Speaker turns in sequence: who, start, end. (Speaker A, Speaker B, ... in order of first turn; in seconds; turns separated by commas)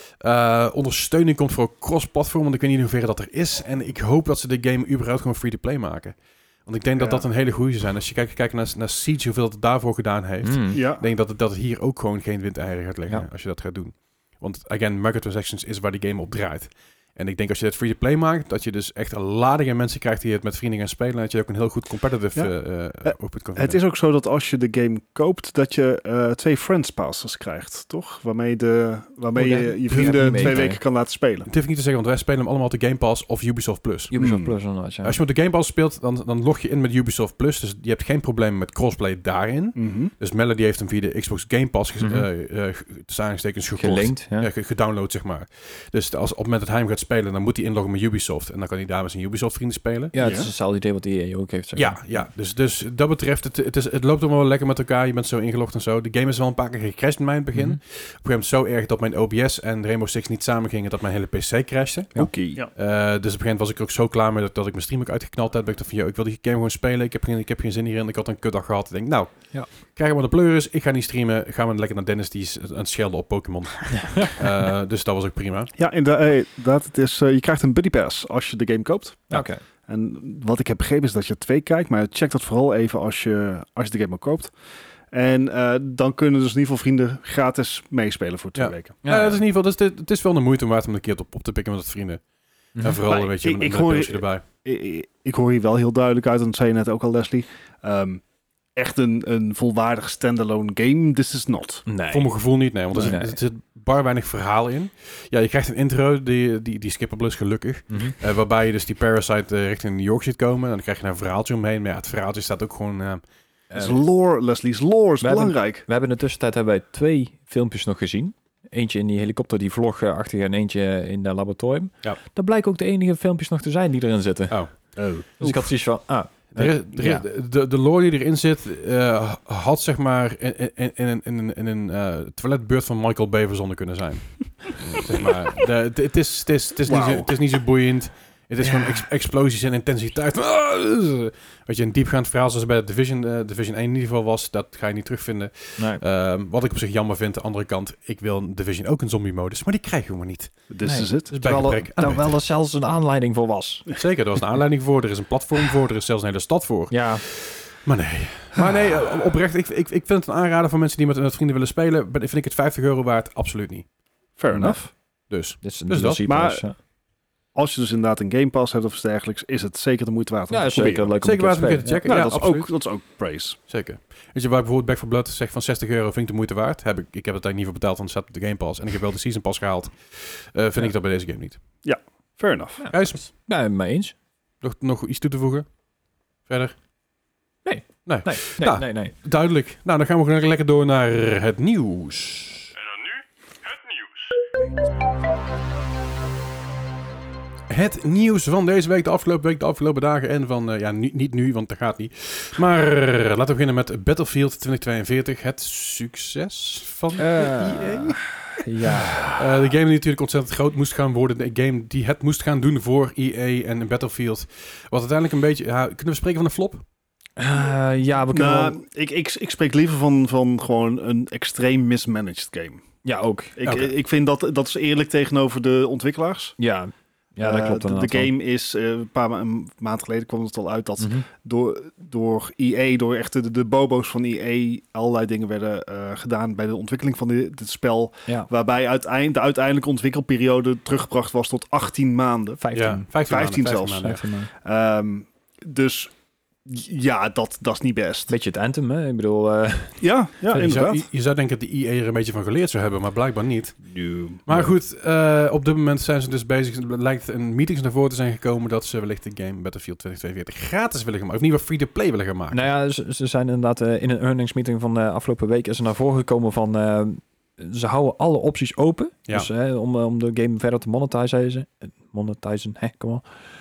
Speaker A: 0.2-23.8, Speaker B: 7.0-7.3, Speaker C: 10.4-10.8, Speaker B: 10.7-11.0, Speaker B: 22.4-31.5, Speaker C: 29.4-30.8, Speaker A: 29.9-30.8, Speaker A: 31.5-34.2, Speaker C: 34.1-35.2, Speaker B: 34.2-34.5, Speaker A: 35.0-50.1, Speaker B: 39.8-40.1, Speaker C: 42.0-42.3, Speaker C: 43.8-44.5, Speaker C: 50.1-52.2, Speaker B: 50.2-50.5, Speaker A: 51.8-62.2, Speaker C: 57.5-57.8, Speaker B: 62.2-62.6, Speaker A: 62.7-75.7, Speaker B: 75.8-84.5, Speaker C: 79.3-79.6, Speaker B: 85.1-89.0, Speaker A: 88.6-92.2, Speaker C: 89.0-89.4, Speaker C: 92.8-93.0, Speaker A: 92.8-94.5, Speaker B: 93.0-98.2, Speaker B: 98.8-101.9, Speaker C: 101.9-102.3, Speaker A: 102.1-113.2, Speaker C: 102.9-103.4, Speaker C: 107.9-108.2, Speaker C: 113.7-114.0, Speaker B: 113.8-115.8, Speaker C: 115.2-127.2, Speaker A: 124.5-125.7, Speaker A: 126.5-150.6, Speaker B: 136.9-137.3, Speaker C: 145.8-146.0, Speaker B: 150.7-151.3, Speaker C: 150.8-153.9, Speaker A: 151.3-152.4, Speaker A: 153.9-163.9, Speaker C: 156.9-157.3, Speaker B: 164.4-164.9, Speaker C: 164.5-164.8, Speaker A: 165.3-166.2, Speaker C: 165.6-166.8, Speaker B: 166.3-166.6, Speaker B: 167.5-171.1, Speaker C: 170.5-172.2, Speaker A: 171.2-172.7, Speaker B: 172.1-173.6, Speaker A: 173.7-181.6, Speaker B: 181.8-182.8, Speaker C: 182.8-184.1, Speaker A: 182.9-183.3, Speaker A: 184.6-185.7, Speaker A: 186.5-186.8, Speaker C: 187.7-189.1, Speaker A: 188.1-192.7, Speaker A: 197.7-208.2, Speaker C: 207.2-209.4, Speaker A: 209.3-216.8, Speaker C: 217.4-218.8, Speaker B: 218.3-222.8, Speaker C: 223.0-223.6, Speaker B: 223.6-226.6, Speaker A: 223.6-223.9, Speaker C: 226.6-228.3, Speaker B: 227.4-242.6, Speaker C: 231.0-231.3, Speaker C: 242.6-243.1, Speaker A: 242.7-244.2, Speaker B: 243.2-246.1, Speaker C: 243.9-244.5, Speaker B: 246.7-248.3, Speaker C: 248.3-250.7, Speaker B: 250.0-251.1, Speaker A: 250.5-253.8, Speaker B: 253.9-254.7, Speaker A: 254.5-262.7, Speaker C: 262.5-273.2